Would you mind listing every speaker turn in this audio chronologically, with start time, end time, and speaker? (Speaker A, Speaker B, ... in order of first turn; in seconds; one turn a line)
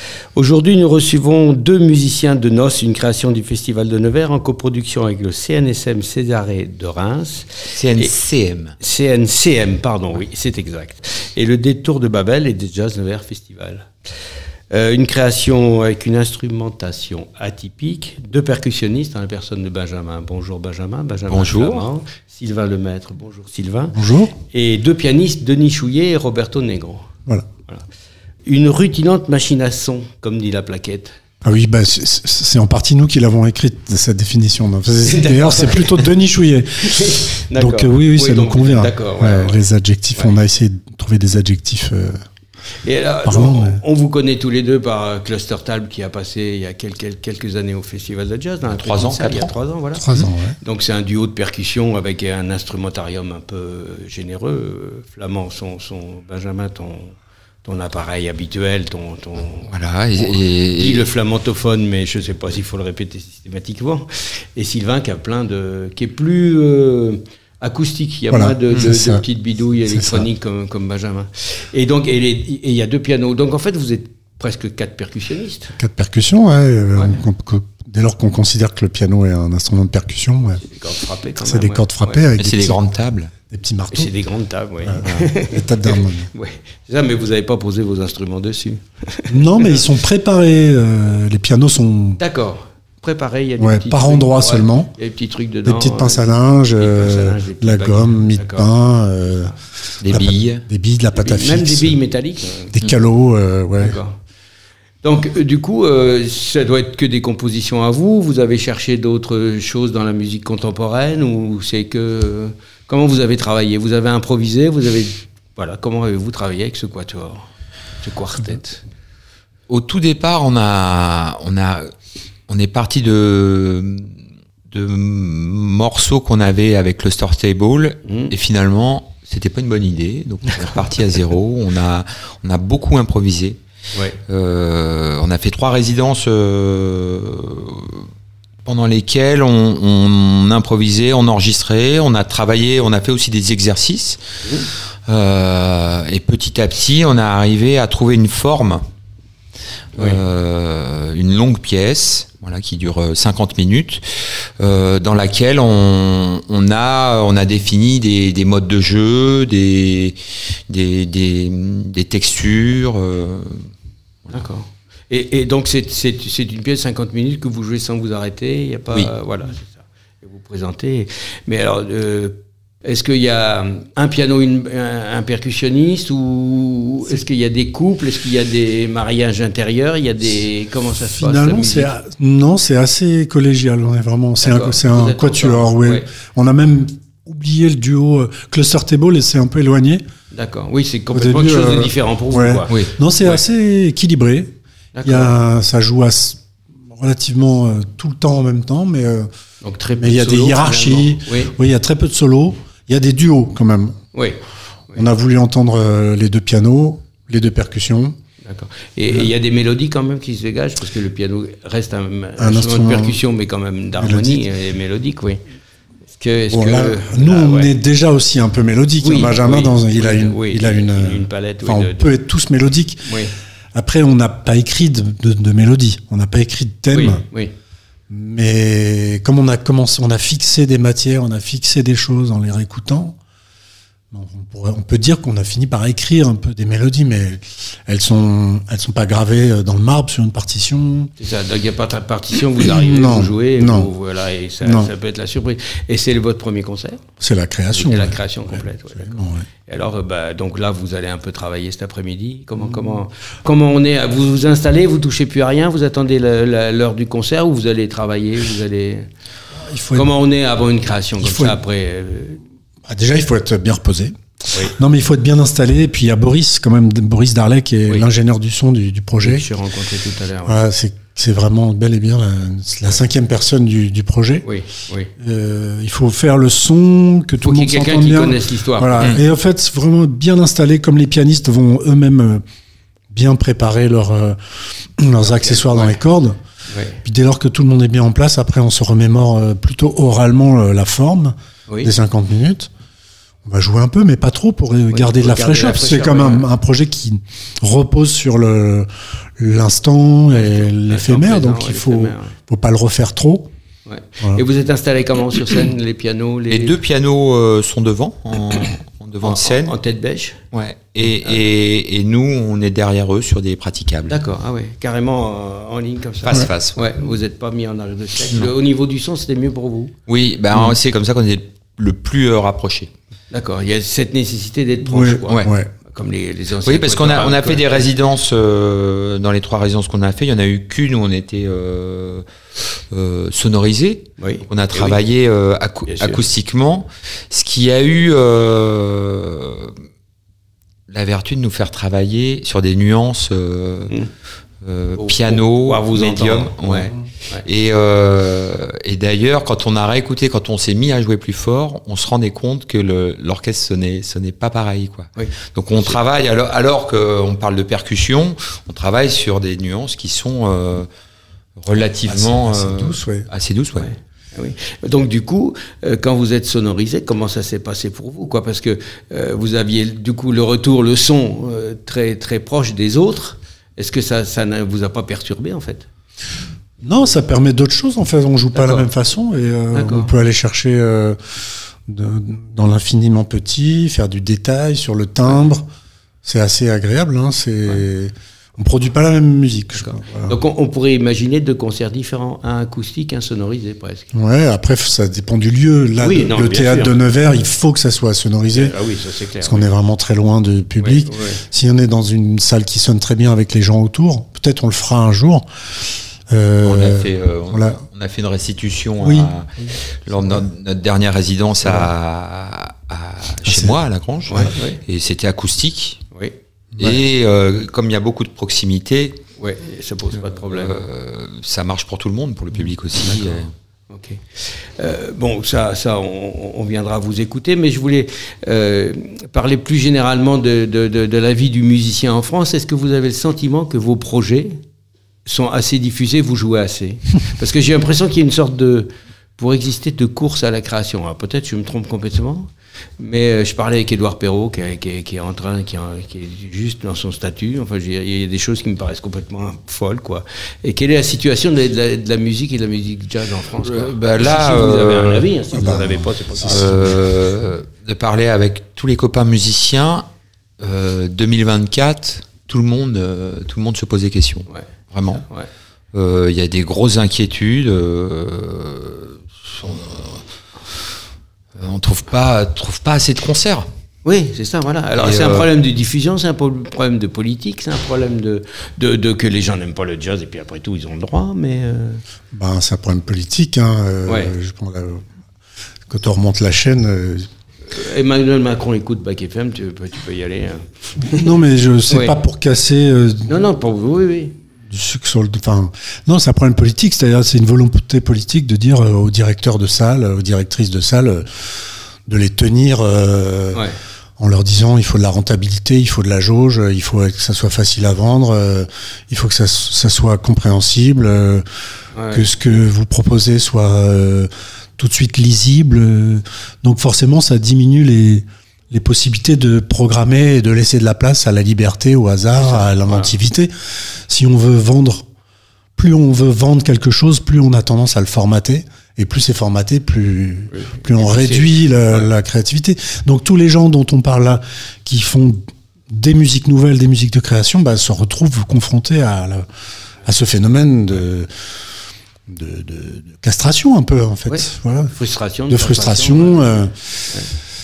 Speaker A: 0.4-8.1
Speaker B: 7.8-8.8
Speaker A: 8.8-13.9
Speaker A: 14.7-27.1
Speaker B: 21.3-21.9
Speaker C: 23.9-24.3
Speaker A: 28.5-31.2
Speaker C: 31.4-42.2
Speaker A: 35.0-36.0
Speaker A: 36.8-39.6
Speaker A: 42.8-59.7
Speaker C: 43.2-43.8
Speaker B: 48.7-49.5
Speaker C: 50.0-50.6
Speaker B: 59.7-61.0
Speaker A: 60.2-75.8
Speaker C: 68.3-69.2
Speaker C: 69.9-70.3
Speaker C: 75.8-80.6
Speaker A: 80.6-82.2
Speaker C: 81.4-82.8
Speaker B: 82.4-83.3
Speaker C: 83.5-84.1
Speaker A: 83.9-89.8
Speaker C: 84.8-86.3
Speaker B: 85.0-85.3
Speaker C: 89.3-92.2
Speaker A: 92.2-96.2
Speaker C: 93.6-94.9
Speaker C: 95.7-102.0
Speaker A: 96.8-98.7
Speaker B: 100.0-100.7
Speaker A: 101.1-102.8
Speaker C: 102.7-104.0
Speaker A: 103.8-104.2
Speaker A: 105.0-117.5
Speaker A: 118.0-118.8
Speaker B: 119.7-121.9
Speaker B: 122.5-124.2
Speaker B: 124.7-133.6
Speaker A: 128.1-128.3
Speaker B: 134.3-138.1
Speaker B: 138.7-144.2
Speaker A: 144.4-144.7
Speaker B: 145.1-148.8
Speaker A: 150.0-150.2
Speaker B: 150.0-163.7
Speaker A: 164.3-181.9
Speaker C: 181.0-190.0
Speaker A: 184.4-186.1
Speaker A: 190.3-193.4
Speaker C: 191.1-194.5
Speaker A: 194.9-195.4
Speaker C: 195.1-199.3
Speaker A: 199.6-201.6
Speaker C: 200.0-204.0
Speaker A: 204.1-204.4
Speaker C: 204.9-208.2
Speaker A: 208.4-215.4
Speaker C: 212.4-213.2
Speaker C: 214.0-214.4
Speaker A: 216.1-217.7
Speaker C: 216.5-223.1
Speaker A: 219.0-222.1
Speaker A: 223.1-223.3
Speaker C: 223.7-227.2
Speaker A: 226.9-227.5
Speaker C: 228.1-233.2
Speaker C: 234.1-241.1
Speaker A: 241.2-247.0
Speaker C: 242.6-243.9
Speaker C: 244.6-244.9
Speaker C: 247.2-249.5
Speaker A: 247.7-259.1
Speaker C: 252.6-252.9
Speaker C: 259.6-260.1
Speaker A: 259.9-262.4
Speaker C: 261.2-261.6
Speaker C: 262.8-269.5
Speaker A: 269.2-270.6
Speaker C: 270.5-274.5
Speaker A: 274.4-275.1
Speaker C: 275.2-282.4
Speaker A: 277.4-279.2
Speaker C: 283.1-286.4
Speaker A: 285.2-286.0
Speaker A: 286.7-287.0
Speaker C: 287.0-292.7
Speaker C: 293.4-303.5
Speaker A: 294.9-296.5
Speaker A: 300.3-302.4
Speaker A: 303.9-306.8
Speaker B: 306.5-309.7
Speaker A: 309.2-310.4
Speaker B: 310.5-314.2
Speaker A: 314.1-319.9
Speaker B: 316.2-316.8
Speaker B: 320.1-322.9
Speaker A: 323.3-327.8
Speaker C: 324.8-325.7
Speaker B: 326.6-339.8
Speaker A: 334.2-335.0
Speaker A: 335.9-336.2
Speaker B: 340.9-344.0
Speaker B: 344.6-360.9
Speaker A: 345.0-347.4
Speaker A: 355.2-356.0
Speaker B: 361.6-363.9
Speaker C: 362.1-363.3
Speaker A: 363.8-375.9
Speaker C: 376.8-385.7
Speaker A: 378.5-378.9
Speaker A: 379.7-380.1
Speaker C: 386.2-390.4
Speaker A: 389.8-394.1
Speaker C: 394.1-398.7
Speaker A: 396.0-397.0
Speaker A: 398.5-399.7
Speaker C: 399.4-405.5
Speaker A: 400.8-401.4
Speaker C: 406.3-407.8
Speaker B: 406.6-416.0
Speaker C: 409.0-409.3
Speaker C: 413.5-413.8
Speaker A: 414.3-414.8
Speaker B: 416.8-419.2
Speaker A: 419.4-420.8
Speaker B: 420.5-423.5
Speaker A: 423.0-434.6
Speaker A: 435.3-457.0
Speaker B: 453.6-455.3
Speaker C: 455.6-456.6
Speaker B: 456.4-460.1
Speaker B: 460.6-465.2
Speaker A: 464.5-465.5
Speaker B: 465.9-470.2
Speaker B: 471.6-473.7
Speaker A: 474.1-482.0
Speaker B: 475.0-475.5
Speaker C: 482.3-485.1
Speaker A: 484.1-484.3
Speaker C: 485.9-487.3
Speaker A: 487.7-491.3
Speaker C: 491.0-493.3
Speaker A: 491.9-492.2
Speaker A: 493.3-494.4
Speaker C: 494.7-503.6
Speaker C: 504.2-511.5
Speaker A: 511.9-512.3
Speaker C: 512.1-525.1
Speaker A: 522.4-523.1
Speaker C: 525.8-539.5
Speaker A: 530.5-532.1
Speaker C: 540.0-541.5
Speaker C: 542.3-544.9
Speaker A: 544.3-546.5
Speaker C: 545.5-547.1